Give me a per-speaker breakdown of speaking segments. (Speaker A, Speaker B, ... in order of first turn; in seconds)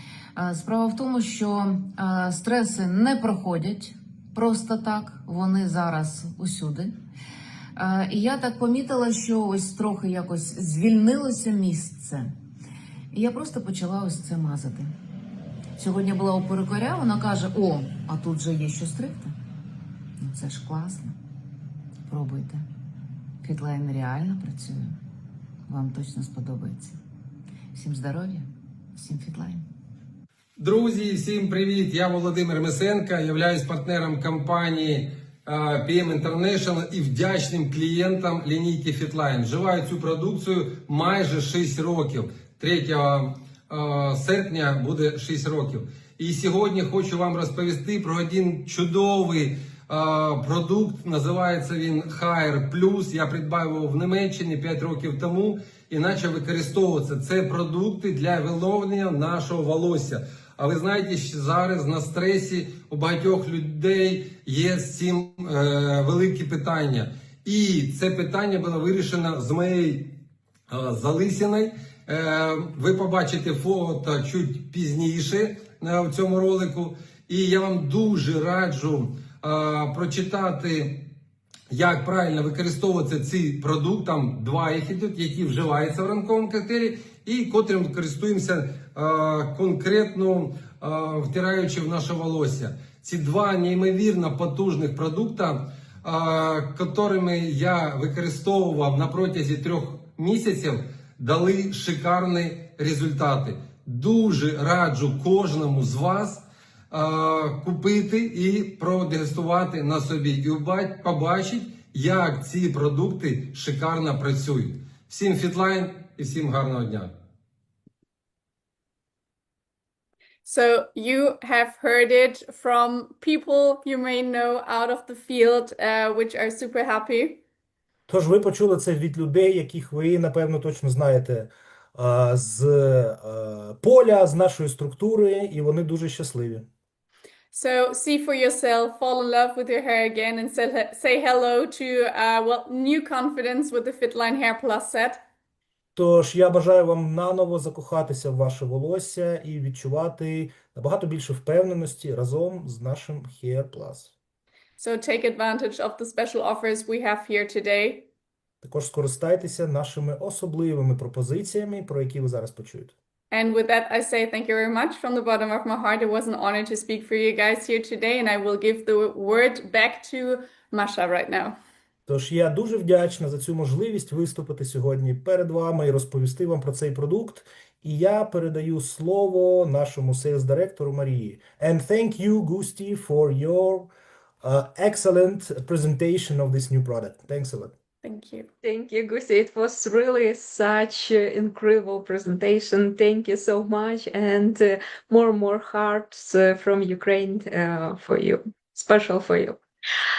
Speaker A: 0.3-6.9, 7.8-12.3, 13.1-14.9, 15.8-19.3, 20.2-21.1, 22.1-22.6, 23.4-24.9, 25.7-27.0, 27.7-29.6
Speaker B: 30.6-70.2, 70.7-81.1, 81.7-117.1
Speaker C: 120.4-127.4, 137.5-145.2, 154.8-158.1, 163.3-171.6, 188.0-188.5
Speaker D: 128.1-136.7, 145.9-154.1, 158.6-162.9, 172.1-183.9, 184.4-187.7
Speaker E: 188.6-199.6